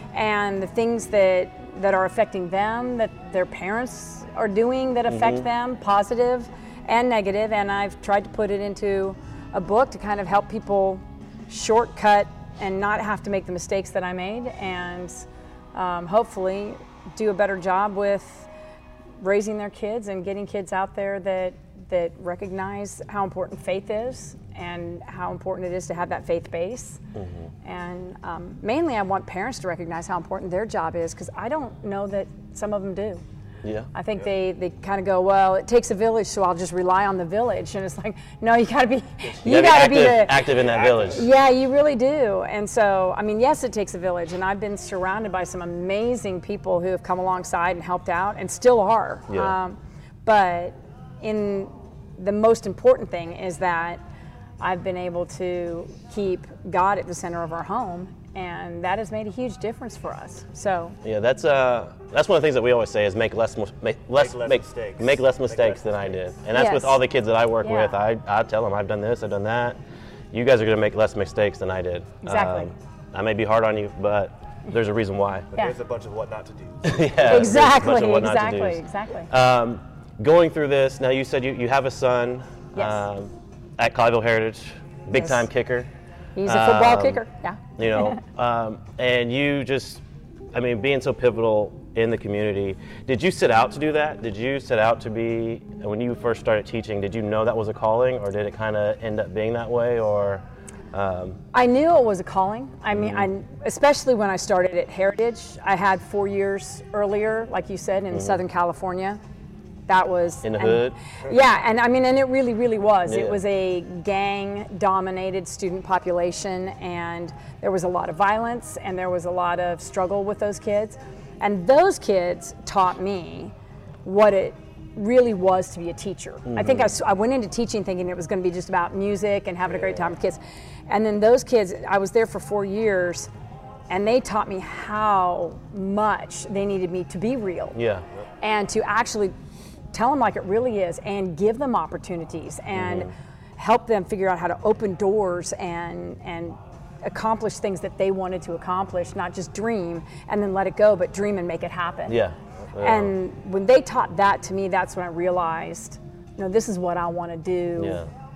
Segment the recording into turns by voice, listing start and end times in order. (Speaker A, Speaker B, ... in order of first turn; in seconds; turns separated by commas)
Speaker A: 0.1-18.5, Speaker B: 5.1-5.5, Speaker A: 19.2-27.0, Speaker B: 27.1-27.5, Speaker A: 27.6-33.2, Speaker B: 33.6-33.9, Speaker A: 34.0-40.5, Speaker B: 39.4-41.3, Speaker C: 40.4-41.3, Speaker A: 41.1-54.0, Speaker B: 49.3-49.6, Speaker A: 54.6-61.0, Speaker B: 61.0-69.8, Speaker C: 64.2-66.2, Speaker A: 66.5-67.0, Speaker A: 67.6-68.0, Speaker B: 70.3-75.5, Speaker A: 72.2-72.7, Speaker C: 75.5-77.5, Speaker B: 76.8-85.9, Speaker A: 77.3-79.3, Speaker A: 82.8-83.0, Speaker A: 86.3-88.2, Speaker B: 86.4-87.2, Speaker B: 87.8-101.4, Speaker A: 101.5-109.2, Speaker B: 102.9-103.3, Speaker B: 108.1-108.4, Speaker A: 109.9-123.5, Speaker B: 110.4-111.0, Speaker B: 113.1-113.4, Speaker A: 124.0-133.3, Speaker B: 126.5-126.9, Speaker A: 133.9-137.8, Speaker B: 137.8-138.0, Speaker A: 138.4-139.3, Speaker A: 139.9-152.2, Speaker B: 142.7-143.1, Speaker B: 152.1-153.2, Speaker A: 152.8-158.0, Speaker B: 157.8-158.1